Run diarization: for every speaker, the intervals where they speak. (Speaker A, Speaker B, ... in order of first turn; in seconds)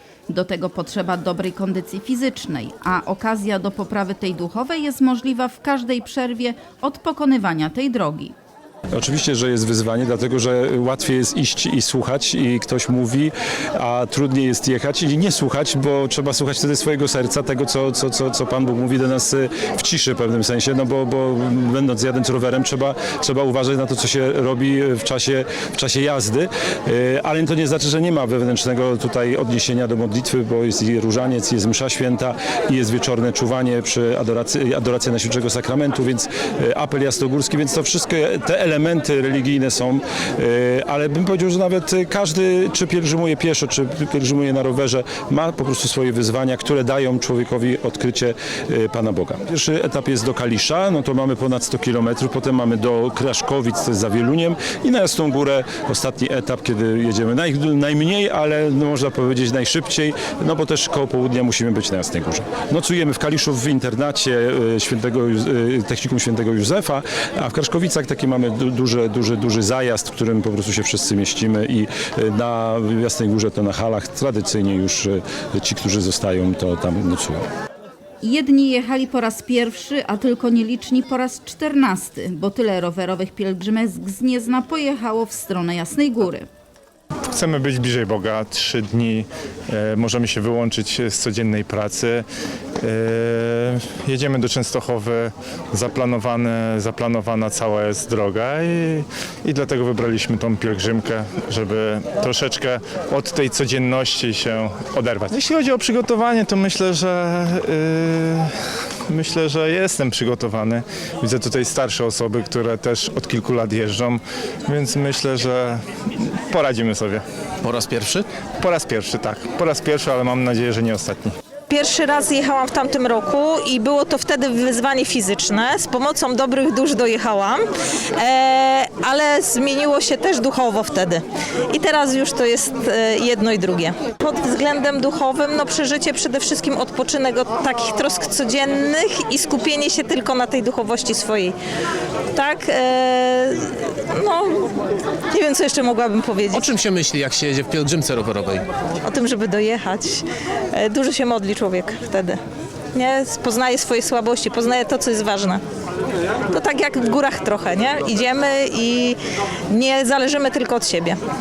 Speaker A: 0.3-8.3, 78.2-86.5
Speaker B: 8.9-77.4
Speaker C: 87.3-92.2, 92.8-108.5, 109.1-117.2, 118.6-121.3
Speaker D: 117.6-118.3, 146.5-148.7
Speaker E: 121.7-127.7, 128.2-141.6, 142.3-146.7, 149.0-152.4, 152.9-155.6, 156.5-159.2, 159.7-161.2